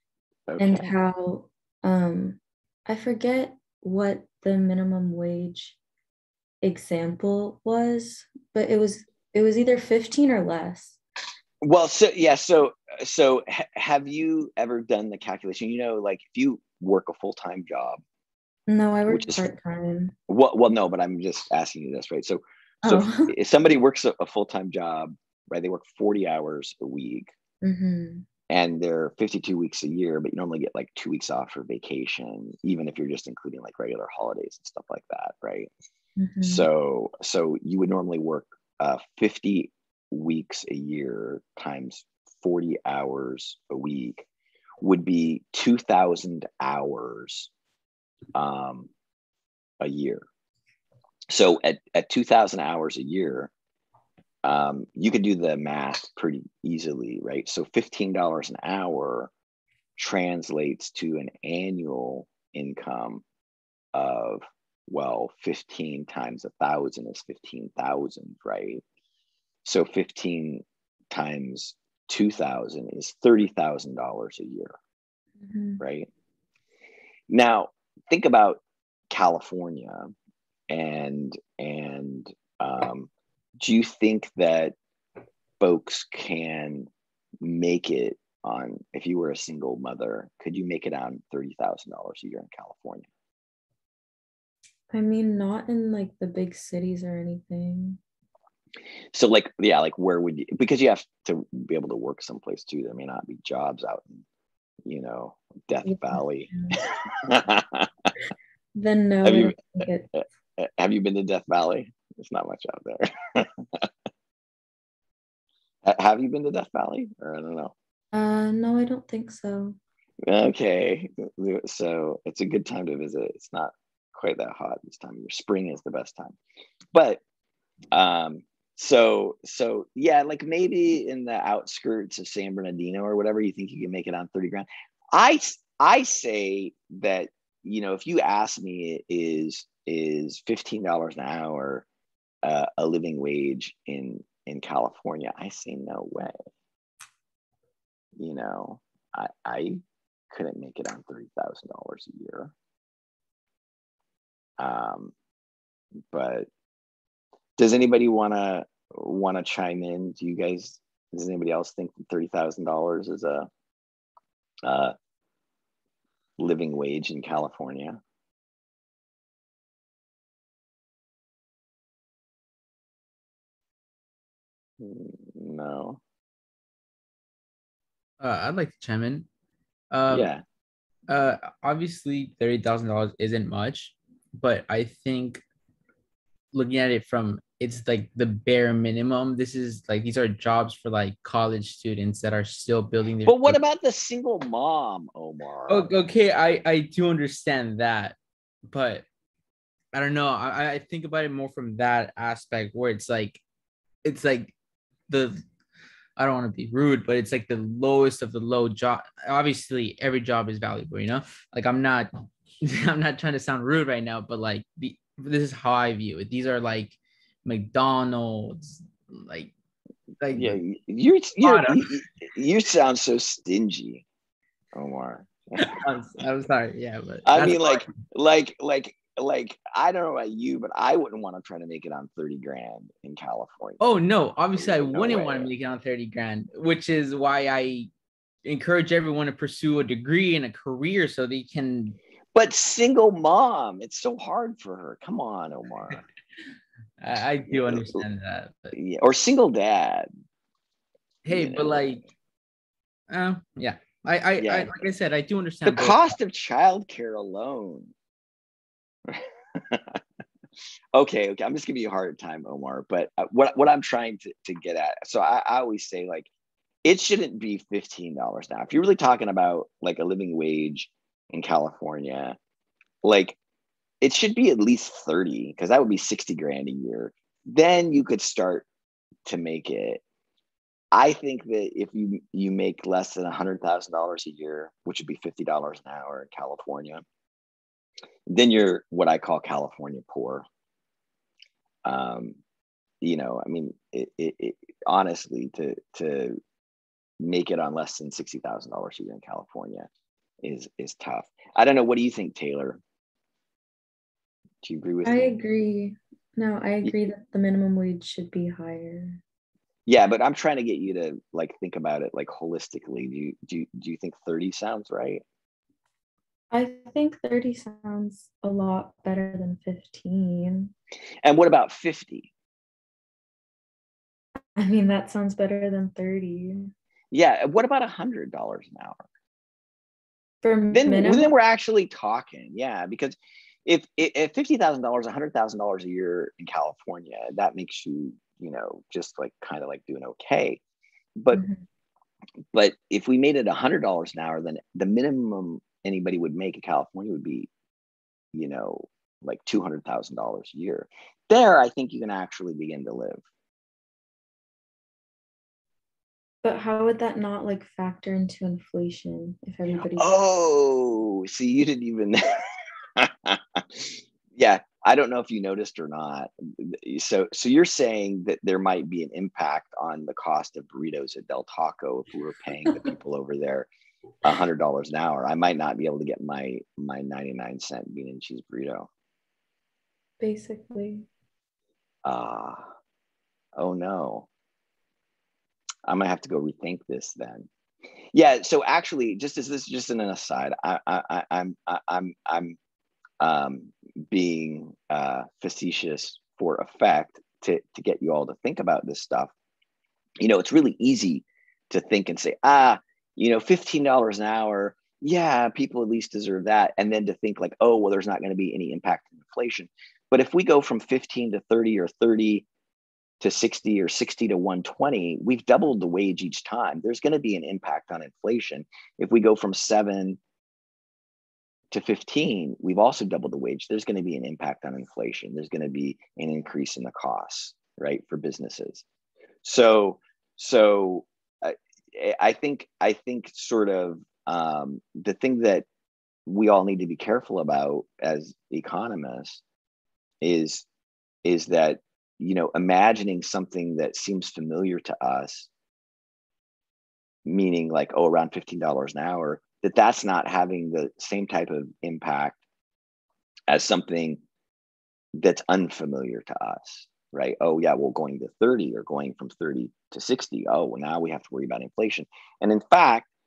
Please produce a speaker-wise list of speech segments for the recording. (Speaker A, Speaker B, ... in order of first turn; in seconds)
Speaker A: 0.5-0.9, 11.6-18.0, 19.1-19.5, 20.3-27.3, 28.5-35.7, 36.4-44.2, 44.8-47.5, 48.3-48.9, 49.8-50.2, 51.3-53.5, 54.4-59.3, 60.0-63.2, 63.9-68.8, 69.6-74.7, 75.8-76.1, 77.3-80.1, 80.7-84.7, 85.6-86.9, 87.4-93.1, 99.1-104.2, 104.8-108.1, 109.2-109.6, 110.1-113.9, 115.8-117.7, 120.3-126.4, 126.9-127.2, 127.9-141.8, 142.4-146.3, 148.2-152.5, 154.6-155.1, 156.1-156.5, 157.6-163.5, 164.6-164.9, 166.4-168.0, 174.8-176.0, 180.1-180.4, 193.2-195.9, 220.3-224.0, 224.7-225.8, 227.2-234.0, 234.5-235.5, 242.3-246.0, 247.5-248.0, 248.7-250.1, 251.3-252.0, 254.4-254.9, 255.6-257.9, 259.1-260.0, 260.9-266.3, 266.8-272.4, 273.0-273.4, 274.0-278.6, 279.2-280.0, 280.9-287.0, 288.3-290.4, 291.8-292.4, 293.0-296.4, 297.2-299.9, 300.4-302.8, 304.6-305.4, 309.9-315.2, 321.2-322.3, 327.1-329.0, 330.7-340.6, 341.2-341.4, 342.5-347.5, 348.3-353.2, 359.9-362.4, 363.0-373.7, 374.2-378.9, 382.0-382.7, 383.6-384.3, 385.9-387.5, 388.1-392.6, 393.2-399.3, 400.2-412.4, 413.2-420.2, 421.7-428.8, 429.4-435.6, 436.3-439.4, 440.2-440.6, 441.2-445.5, 447.2-452.4, 453.5-454.2, 455.1-463.1
Speaker B: 0.6-5.8, 6.6-11.0, 18.7-20.1, 22.8-23.3, 27.6-28.2, 36.2-36.7, 75.4-75.8, 94.9-98.0, 105.8-106.8, 108.7-110.1, 118.1-119.8, 305.0-309.2, 316.5-320.7, 324.6-326.7, 330.4-331.3, 341.3-341.6, 356.4-360.1, 380.2-381.1
Speaker C: 178.2-179.3, 179.9-180.3, 181.1-185.4, 186.5-193.6, 195.7-198.2, 198.7-199.0, 199.9-203.4, 204.0-204.5, 205.1-205.4, 206.2-212.1, 212.6-219.5, 220.2-220.6, 221.4-222.0, 225.6-227.9, 233.8-237.9, 238.4-242.0, 247.0-248.7, 251.2-252.0, 253.1-256.0